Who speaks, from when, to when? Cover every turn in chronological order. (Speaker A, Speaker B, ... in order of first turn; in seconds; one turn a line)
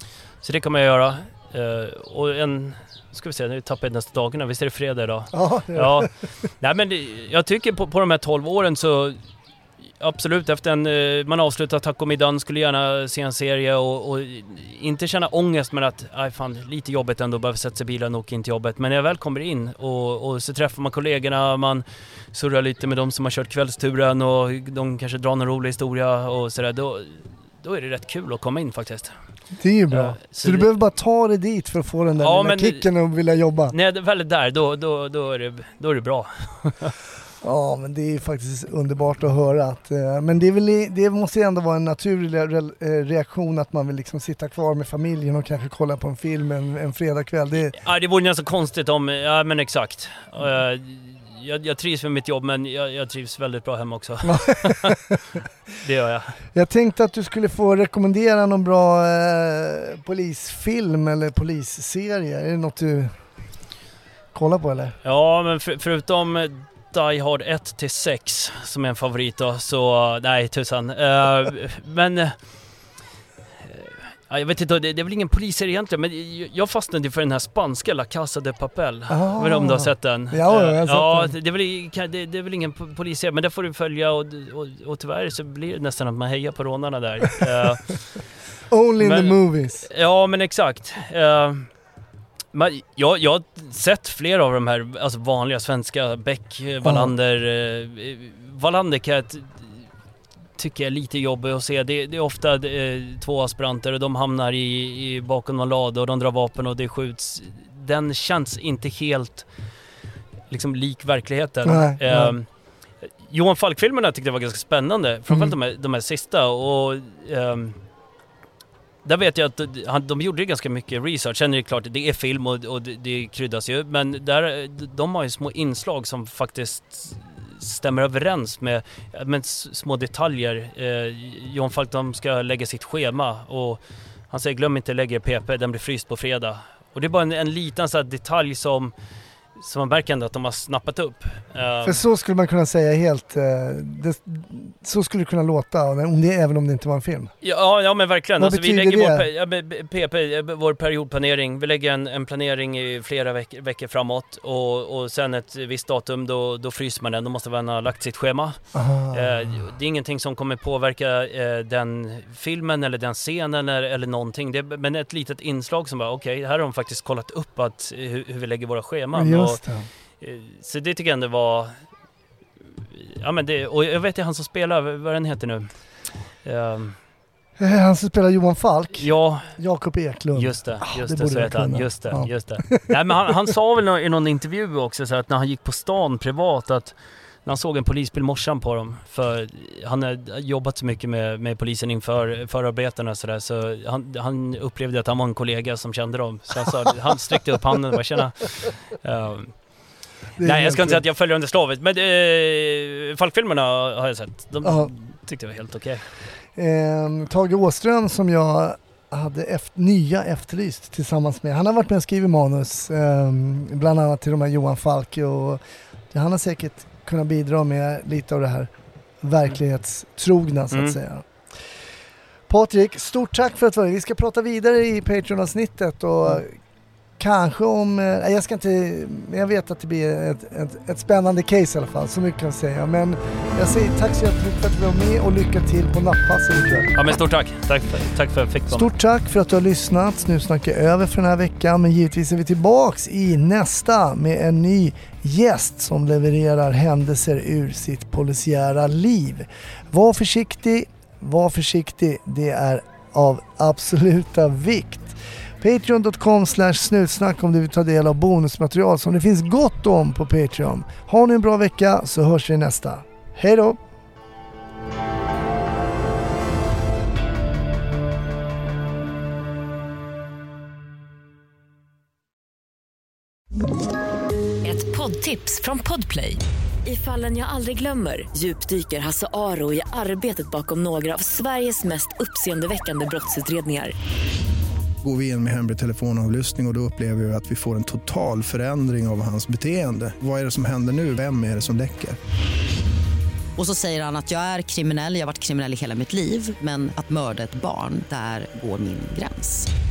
Speaker A: 0.4-9.2
Speaker B: 5.3-6.2
Speaker A: 10.0-29.1
Speaker B: 29.6-33.7
Speaker A: 29.9-30.7
Speaker A: 32.2-32.9
Speaker A: 33.7-37.0
Speaker B: 37.4-47.7
Speaker A: 47.7-55.0
Speaker B: 54.2-55.2
Speaker A: 55.7-56.4
Speaker B: 56.5-63.2
Speaker B: 64.3-65.0
Speaker A: 65.0-72.4
Speaker A: 73.6-88.2
Speaker B: 79.1-81.3
Speaker B: 88.7-89.9
Speaker A: 89.0-91.7
Speaker A: 92.5-99.8
Speaker B: 96.8-97.1
Speaker A: 100.6-109.5
Speaker A: 110.5-117.8
Speaker B: 111.6-112.3
Speaker B: 115.3-115.5
Speaker A: 119.0-138.9
Speaker A: 139.5-142.0
Speaker B: 141.8-147.3
Speaker A: 147.4-169.6
Speaker B: 148.4-149.2
Speaker B: 158.7-159.7
Speaker B: 169.1-169.9
Speaker A: 170.2-171.8
Speaker A: 172.9-175.7
Speaker A: 176.4-177.0
Speaker B: 177.6-183.3
Speaker A: 179.0-179.5
Speaker A: 180.3-199.6
Speaker B: 200.4-201.0
Speaker A: 200.4-206.0
Speaker B: 204.6-204.9
Speaker B: 206.5-221.7
Speaker A: 220.7-221.0
Speaker B: 222.5-226.6
Speaker B: 227.2-236.9
Speaker A: 236.9-238.9
Speaker B: 238.7-263.8
Speaker C: 274.6-283.9
Speaker D: 285.0-292.2
Speaker E: 293.6-299.7